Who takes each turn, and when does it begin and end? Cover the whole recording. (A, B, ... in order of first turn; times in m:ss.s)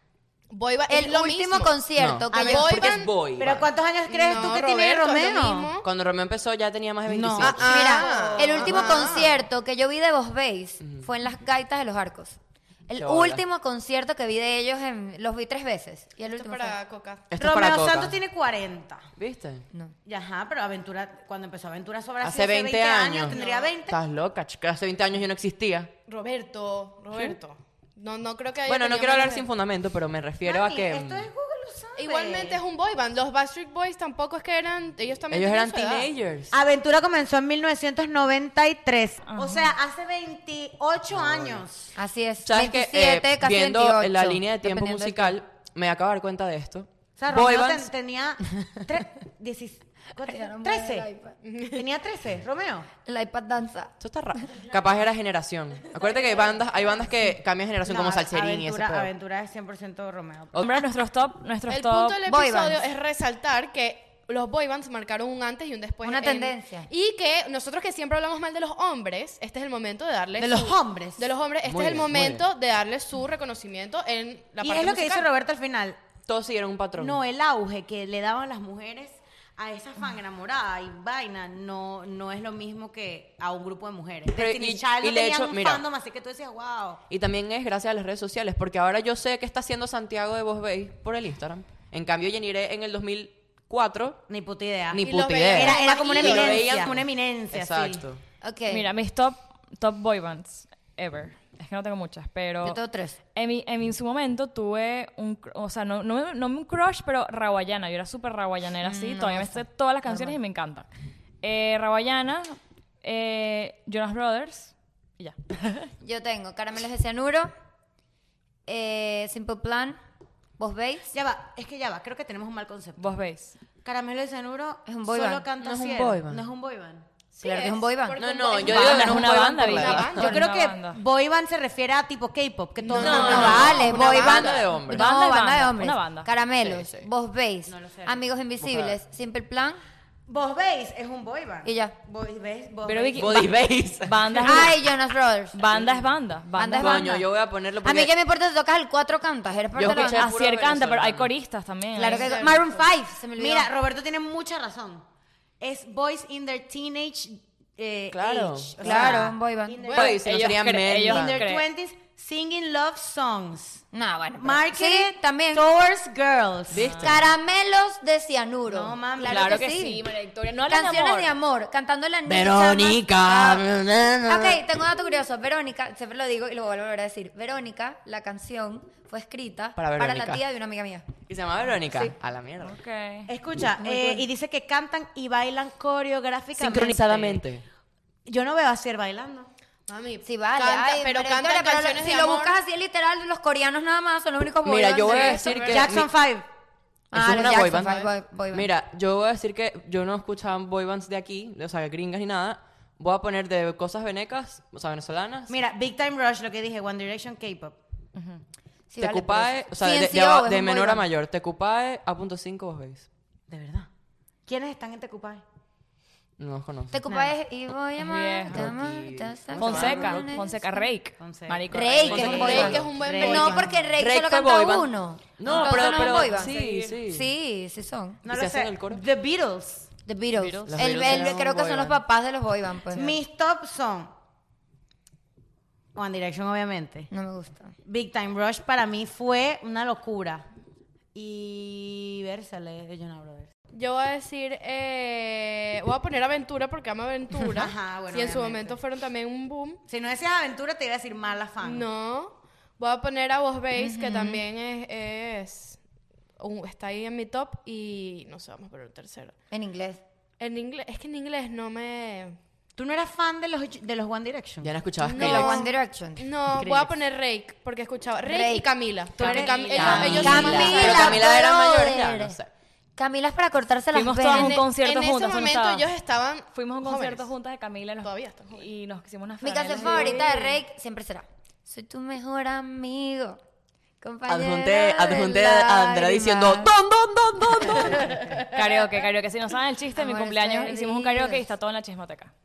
0:00.5-0:01.8 A
0:00.9-0:03.0 B
0:02.0-0:03.7 C
0:02.3-0:05.7 D
0:02.4-0:03.3 A
0:04.1-0:05.9 A
0:05.8-0:07.7 C
0:07.1-0:09.3 D
0:07.4-0:09.3 A
0:07.6-0:16.8 B
0:10.8-0:11.1 C
0:12.9-0:13.4 C
0:16.3-0:17.3 A
0:17.3-0:18.2 C
0:17.4-0:19.1 D
0:19.2-0:19.7 C
0:20.0-0:24.0 D
0:22.2-0:25.9 C
0:23.2-0:23.8 A
0:26.1-0:29.5 A
0:28.7-0:31.3 C
0:30.4-0:32.6 D
0:32.0-0:36.1 A
0:35.3-0:36.5 C
0:36.5-0:41.9 D
0:39.3-0:39.7 E
0:41.1-0:41.6 C
0:42.0-0:45.4 B
0:42.4-0:47.9 C
0:47.2-0:51.1 D
0:50.2-0:51.4 B
0:51.4-0:51.9 A
0:51.8-0:52.9 D
0:53.0-0:53.9 B
0:54.0-0:59.1 C
0:56.0-0:56.6 A
0:57.8-1:00.5 D
1:00.5-1:00.8 C
1:00.6-1:02.2 E
1:01.7-1:15.3 A
1:02.3-1:02.8 B
1:06.0-1:06.9 B
1:10.4-1:11.3 D
1:11.6-1:12.5 C
1:14.6-1:16.0 D
1:16.3-1:17.2 C
1:17.0-1:27.0 D
1:24.3-1:25.8 C
1:27.1-1:34.2 C
1:34.3-1:38.0 D
1:34.9-1:38.2 C
1:35.0-1:36.6 A
1:38.4-1:38.9 B
1:38.7-1:42.8 E
1:42.6-1:43.2 B
1:43.3-1:50.9 E
1:48.8-1:50.4 B
1:51.4-1:55.9 E
1:56.0-1:57.5 B
1:58.7-2:00.0 B
2:00.6-2:01.1 B
2:01.1-2:03.2 D
2:03.0-2:03.5 E
2:03.8-2:07.1 D
2:04.9-2:05.5 B
2:05.6-2:06.5 C
2:07.3-2:10.3 A
2:07.4-2:08.2 B
2:08.2-2:10.3 C
2:08.6-2:11.0 E
2:10.1-2:13.9 D
2:12.8-2:14.7 A
2:13.0-2:15.1 C
2:13.1-2:19.8 B
2:14.8-2:16.3 E
2:16.6-2:17.1 C
2:17.7-2:18.2 D
2:18.6-2:19.0 C
2:20.3-2:23.4 D
2:21.6-2:22.0 B
2:22.8-2:24.8 E
2:23.2-2:24.6 C
2:24.4-2:25.6 B
2:25.5-2:27.2 E
2:26.5-2:27.3 B
2:26.7-2:28.1 C
2:27.8-2:30.3 B
2:29.8-2:31.3 C
2:29.8-2:32.5 E
2:32.0-2:33.7 B
2:32.1-2:32.6 A
2:33.4-2:35.0 D
2:35.6-2:40.3 D
2:38.1-2:38.9 C
2:38.8-2:40.2 B
2:39.9-2:41.4 C
2:39.9-2:41.7 E
2:41.1-2:43.8 D
2:43.9-2:45.6 B
2:44.4-2:46.8 D
2:46.7-2:47.3 C
2:46.7-2:47.2 E
2:47.0-2:50.0 B
2:48.7-2:49.6 D
2:49.2-2:51.4 E
2:50.7-2:53.7 B
2:52.3-2:54.6 C
2:54.3-3:01.1 B
2:59.8-3:00.4 C
3:01.3-3:02.8 C
3:02.6-3:03.3 E
3:03.3-3:07.4 D
3:03.8-3:04.3 B
3:06.6-3:07.6 C
3:08.2-3:09.5 D
3:09.9-3:12.6 A
3:10.2-3:15.6 B
3:14.6-3:16.1 C
3:15.0-3:15.9 A
3:15.7-3:16.5 D
3:17.1-3:18.7 B
3:17.1-3:25.6 C
3:17.8-3:18.1 A
3:25.5-3:27.8 D
3:28.2-3:28.4 E
3:28.9-3:31.1 B
3:29.0-3:33.1 C
3:33.5-3:33.9 D
3:34.5-3:35.4 D
3:36.4-3:37.0 C
3:36.9-3:40.5 B
3:38.0-3:38.7 E
3:38.5-3:40.5 C
3:39.6-3:42.7 E
3:41.2-3:43.8 D
3:41.7-3:48.2 B
3:42.0-3:42.9 C
3:42.1-3:43.6 A
3:43.9-3:47.3 C
3:45.4-3:46.8 D
3:46.4-3:46.9 E
3:48.2-3:49.9 D
3:48.3-3:49.0 C
3:50.0-3:53.2 B
3:50.4-3:51.2 E
3:50.7-3:52.0 C
3:52.9-3:54.1 D
3:56.0-3:57.1 D
3:57.1-3:57.7 B
3:57.8-4:00.5 D
4:01.2-4:03.5 D
4:03.7-4:09.8 A
4:07.4-4:08.8 D
4:09.9-4:11.9 D
4:11.6-4:15.8 A
4:13.8-4:14.4 B
4:16.4-4:19.3 A
4:19.5-4:20.0 B
4:20.4-4:22.4 A
4:22.8-4:24.7 D
4:24.6-4:25.6 C
4:25.0-4:31.1 A
4:25.0-4:26.3 B
4:26.5-4:26.9 D
4:28.2-4:28.7 B
4:29.2-4:31.3 D
4:29.2-4:32.4 B
4:29.2-4:30.1 E
4:29.6-4:32.5 C
4:33.0-4:34.6 B
4:33.9-4:35.9 E
4:34.3-4:37.3 A
4:36.5-4:40.4 E
4:38.0-4:38.7 A
4:39.4-4:43.4 B
4:40.0-4:40.3 A
4:44.0-4:46.7 B
4:44.3-4:48.4 C
4:47.9-4:48.5 A
4:48.4-4:52.3 E
4:50.0-4:51.4 B